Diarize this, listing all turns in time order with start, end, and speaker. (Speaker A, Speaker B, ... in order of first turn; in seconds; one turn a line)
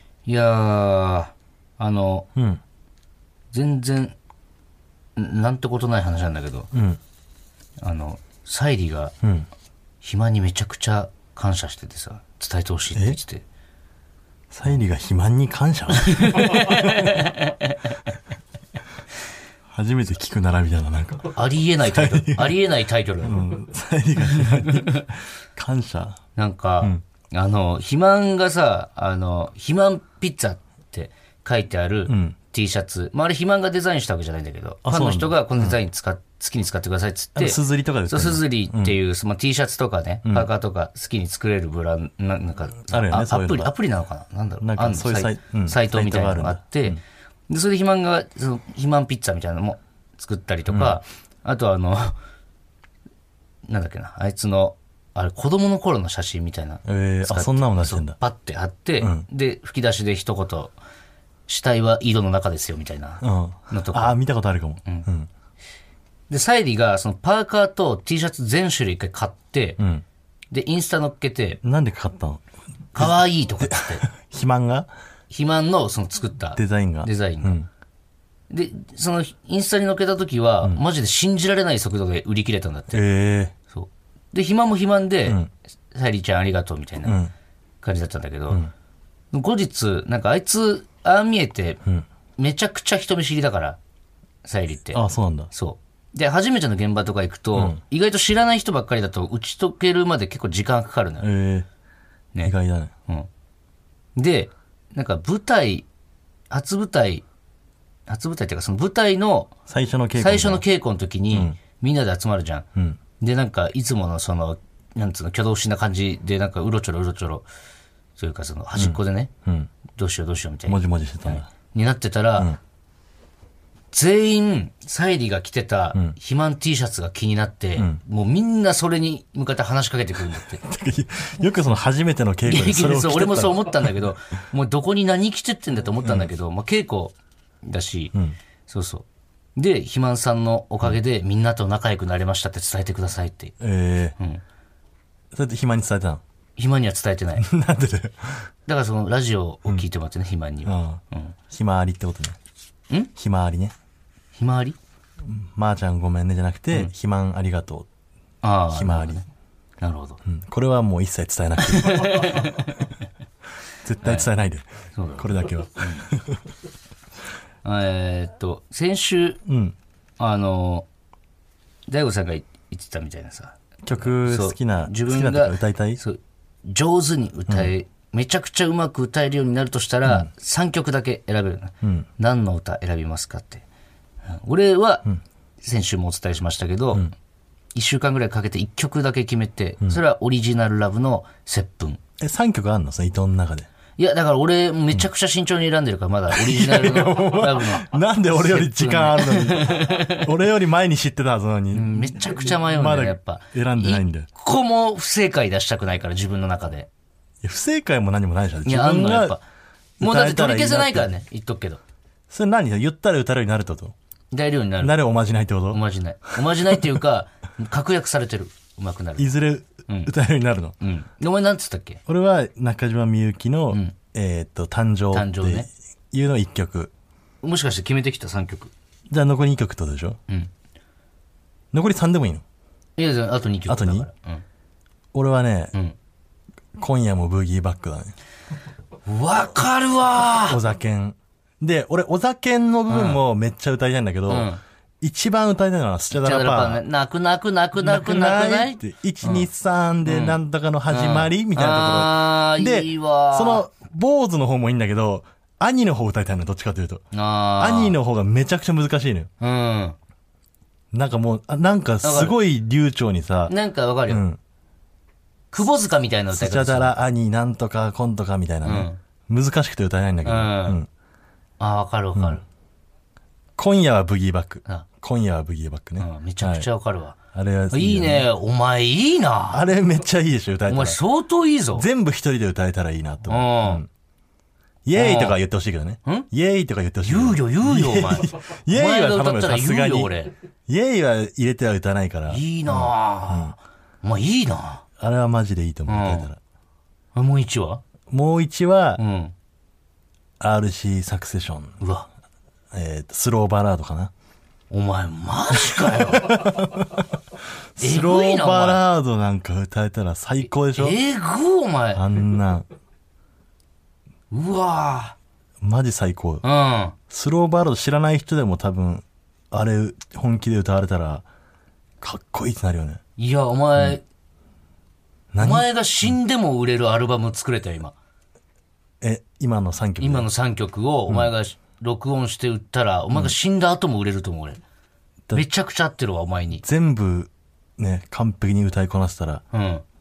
Speaker A: 0.3-2.3
Speaker B: 2.4-2.6
Speaker A: 3.5-4.2
Speaker A: 5.2-6.7
Speaker B: 6.7-7.0
Speaker A: 7.8-9.1
Speaker B: 9.2-9.5
Speaker A: 10.0-13.4
Speaker B: 14.5-17.1
Speaker A: 16.0-18.0
Speaker B: 19.7-22.6
Speaker A: 21.3-23.5
Speaker B: 23.2-26.2
Speaker A: 24.4-25.0
Speaker A: 26.4-52.2
Speaker B: 32.1-32.4
Speaker B: 34.8-35.8
Speaker B: 37.4-39.0
Speaker B: 40.2-40.5
Speaker B: 42.9-43.7
Speaker B: 44.6-47.0
Speaker B: 50.7-51.0
Speaker A: 53.7-60.8
Speaker B: 56.9-58.2
Speaker B: 59.0-59.3
Speaker A: 61.5-64.2
Speaker B: 63.2-65.3
Speaker A: 66.3-69.8
Speaker B: 69.8-70.0
Speaker A: 70.5-71.6
Speaker B: 71.6-72.4
Speaker A: 72.9-74.0
Speaker B: 73.0-74.9
Speaker A: 75.3-77.6
Speaker B: 76.6-77.7
Speaker A: 78.5-83.0
Speaker B: 82.9-83.5
Speaker A: 83.7-85.4
Speaker B: 85.3-85.5
Speaker A: 85.9-87.2
Speaker B: 87.0-87.3
Speaker A: 87.8-88.6
Speaker A: 89.3-91.8
Speaker A: 92.4-93.8
Speaker A: 94.5-101.3
Speaker B: 94.9-95.5
Speaker B: 101.2-101.7
Speaker B: 102.4-102.9
Speaker A: 104.2-105.9
Speaker A: 106.5-107.2
Speaker A: 108.1-109.5
Speaker B: 109.7-110.7
Speaker A: 110.2-112.7
Speaker A: 113.2-117.5
Speaker A: 118.2-119.3
Speaker B: 118.8-119.7
Speaker A: 119.9-122.5
Speaker B: 120.7-121.5
Speaker A: 123.9-130.6
Speaker B: 130.6-134.1
Speaker A: 132.4-138.1
Speaker B: 136.0-136.3
Speaker A: 138.7-139.1
Speaker A: 139.6-143.6
Speaker B: 143.6-144.2
Speaker B: 145.3-146.2
Speaker A: 146.6-147.5
Speaker B: 147.4-148.4
Speaker A: 148.7-151.3
Speaker B: 150.7-152.4
Speaker B: 153.2-153.7
Speaker A: 154.3-154.8
Speaker B: 155.2-157.9
Speaker A: 158.4-159.3
Speaker B: 158.7-159.2
Speaker A: 159.8-160.2
Speaker B: 160.2-162.4
Speaker A: 161.7-162.9
Speaker B: 163.8-166.4
Speaker A: 164.0-164.3
Speaker A: 164.9-166.0
Speaker A: 167.6-169.4
Speaker B: 169.5-169.8
Speaker A: 170.2-170.9
Speaker A: 171.9-173.6
Speaker B: 173.8-176.0
Speaker A: 174.1-183.7
Speaker B: 181.8-182.1
Speaker A: 184.3-185.1
Speaker A: 185.6-187.1
Speaker A: 187.8-192.0
Speaker B: 192.2-193.7
Speaker A: 194.0-200.3
Speaker B: 196.3-204.3
Speaker A: 201.7-206.9
Speaker B: 207.4-209.4
Speaker A: 208.7-209.4
Speaker B: 210.0-211.1
Speaker A: 210.0-211.8
Speaker B: 212.3-213.9
Speaker A: 214.3-214.9
Speaker B: 214.8-215.8
Speaker A: 215.7-219.3
Speaker B: 219.2-220.8
Speaker A: 219.9-220.1
Speaker A: 220.8-222.0
Speaker B: 222.1-226.9
Speaker A: 225.1-225.7
Speaker A: 227.4-228.7
Speaker B: 229.1-230.2
Speaker B: 231.7-232.4
Speaker A: 233.0-234.4
Speaker B: 233.7-234.1
Speaker B: 235.1-235.7
Speaker B: 236.8-238.2
Speaker A: 239.1-240.6
Speaker B: 240.5-246.8
Speaker A: 242.9-243.2
Speaker A: 244.3-244.6
Speaker A: 246.1-249.5
Speaker B: 247.8-257.1
Speaker A: 250.1-250.4
Speaker A: 250.9-253.6
Speaker A: 257.1-258.0
Speaker B: 257.6-259.3
Speaker A: 259.4-260.0
Speaker B: 260.9-263.5
Speaker A: 262.0-262.4
Speaker A: 263.5-264.2
Speaker B: 264.1-264.4
Speaker A: 265.5-267.0
Speaker B: 266.3-270.9
Speaker A: 268.6-269.0
Speaker A: 270.2-270.8
Speaker A: 271.6-272.4
Speaker B: 272.1-272.4
Speaker B: 273.6-276.7
Speaker A: 276.0-277.2
Speaker B: 277.3-278.3
Speaker A: 277.7-279.6
Speaker B: 279.5-281.0
Speaker A: 280.7-281.9
Speaker B: 281.8-283.9
Speaker A: 283.3-283.8
Speaker B: 284.9-290.1
Speaker A: 284.9-285.4
Speaker A: 287.0-290.3
Speaker B: 290.7-293.6
Speaker A: 292.3-294.8
Speaker B: 295.0-296.4
Speaker A: 295.9-296.3
Speaker A: 297.1-297.8
Speaker B: 298.1-299.0
Speaker A: 299.0-299.3
Speaker B: 300.4-301.8
Speaker A: 301.8-302.1
Speaker B: 302.7-304.1
Speaker A: 304.7-306.6
Speaker B: 305.9-307.0
Speaker B: 307.8-311.0
Speaker A: 307.8-308.8
Speaker A: 310.8-312.0
Speaker B: 311.9-312.7
Speaker A: 314.3-315.2
Speaker B: 315.6-316.4
Speaker A: 316.4-316.9
Speaker B: 317.1-321.2
Speaker B: 322.0-323.0
Speaker A: 323.2-324.0
Speaker B: 325.3-325.7
Speaker A: 325.4-327.9
Speaker B: 329.0-330.3
Speaker A: 330.0-334.6
Speaker A: 335.3-336.6
Speaker B: 336.6-339.4
Speaker A: 339.5-339.8